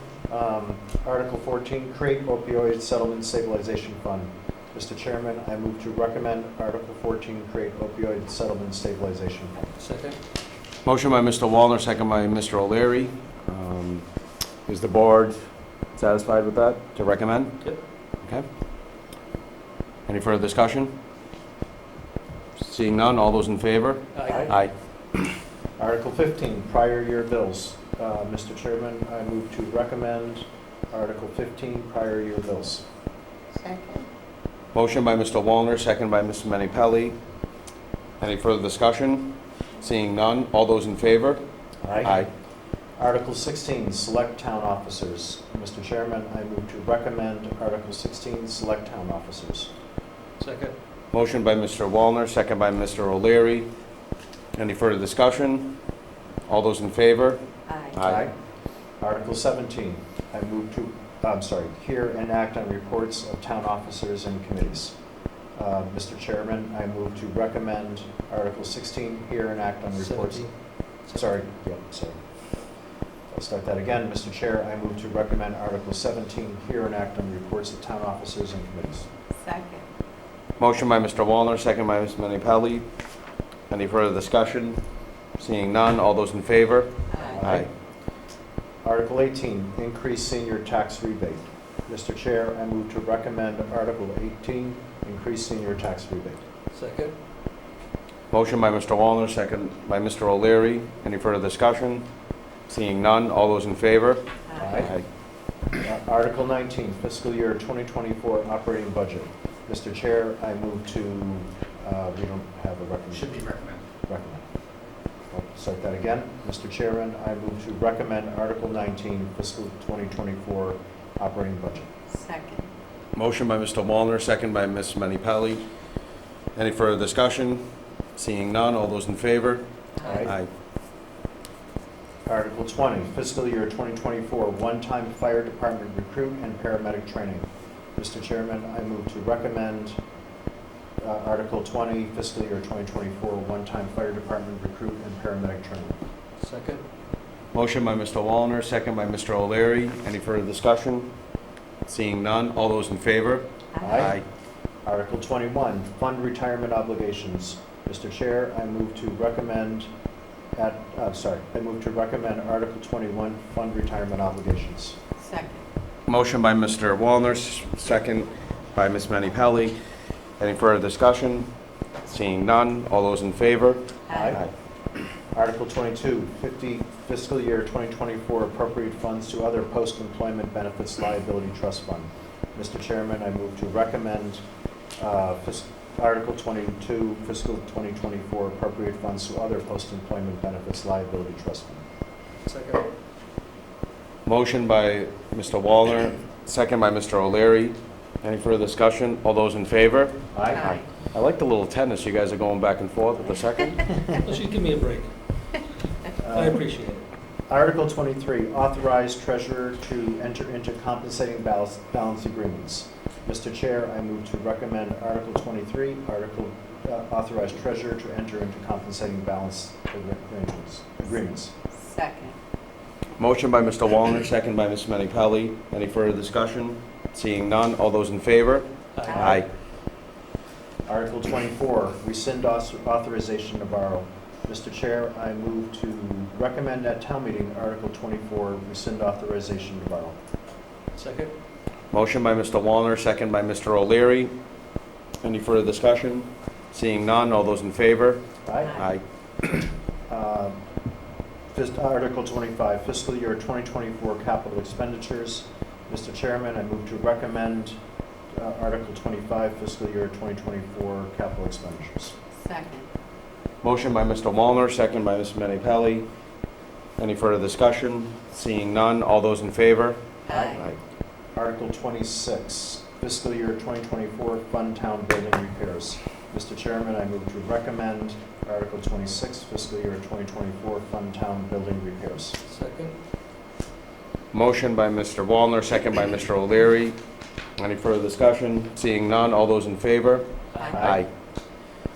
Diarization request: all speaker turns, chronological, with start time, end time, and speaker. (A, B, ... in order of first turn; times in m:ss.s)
0:00.3-0:09.7 A
0:09.8-0:10.2 B
0:10.8-0:14.1 C
0:14.6-0:18.4 C
0:20.1-0:20.9 C
0:22.6-0:24.7 C
0:24.1-0:24.5 B
0:24.3-0:24.6 A
0:25.8-0:32.8 A
0:33.6-0:34.1 D
0:34.7-0:37.2 C
0:38.2-0:41.4 C
0:41.8-0:42.3 A
0:42.0-0:42.3 C
0:43.0-0:49.7 A
0:50.4-0:50.7 B
0:51.1-0:53.7 C
0:54.5-0:55.8 C
0:56.4-0:58.3 C
0:57.7-0:58.0 D
0:58.0-0:58.3 A
0:59.0-1:05.0 A
1:05.6-1:10.5 A
1:10.0-1:10.5 B
1:11.1-1:12.2 A
1:13.3-1:19.1 A
1:19.4-1:19.8 D
1:20.6-1:22.9 C
1:23.7-1:24.8 C
1:25.4-1:27.7 C
1:27.1-1:27.4 D
1:27.3-1:27.7 A
1:28.8-1:36.4 A
1:36.7-1:37.1 B
1:38.3-1:42.0 C
1:42.7-1:45.0 C
1:44.5-1:44.8 D
1:44.6-1:44.9 A
1:45.7-1:53.4 A
1:53.4-1:53.7 C
1:54.0-1:54.4 A
1:55.3-2:01.9 A
2:02.1-2:02.7 D
2:03.1-2:05.6 C
2:06.5-2:07.6 C
2:08.2-2:10.5 C
2:10.0-2:10.3 D
2:10.0-2:10.3 A
2:12.2-2:20.0 A
2:21.0-2:26.0 A
2:26.4-2:26.8 B
2:27.5-2:31.1 C
2:31.9-2:34.2 C
2:33.7-2:34.0 D
2:33.8-2:34.2 A
2:34.8-2:39.9 A
2:40.5-2:45.0 A
2:45.2-2:45.6 D
2:46.1-2:49.7 C
2:50.4-2:51.5 C
2:52.0-2:54.5 C
2:54.1-2:54.4 D
2:54.1-2:54.5 A
2:55.3-3:04.4 A
3:05.0-3:11.8 A
3:12.4-3:12.9 B
3:14.2-3:23.9 C
3:20.3-3:20.6 A
3:20.5-3:20.8 D
3:24.2-3:25.1 B
3:26.2-3:26.6 A
3:26.3-3:27.0 B
3:27.5-3:41.5 A
3:41.8-3:42.4 D
3:43.2-3:49.5 C
3:49.0-3:49.4 B
3:49.1-3:49.4 A
3:50.9-4:00.2 A
4:01.0-4:01.3 B
4:01.9-4:04.3 C
4:05.2-4:09.0 C
4:08.4-4:08.8 A
4:10.1-4:10.6 A
4:11.5-4:17.8 A
4:18.3-4:22.1 A
4:22.4-4:22.9 D
4:23.6-4:26.0 C
4:27.0-4:30.8 C
4:30.3-4:30.6 D
4:30.3-4:30.7 A
4:31.3-4:42.4 A
4:42.4-4:42.9 B
4:44.3-4:47.0 C
4:47.6-4:51.1 C
4:50.7-4:51.0 A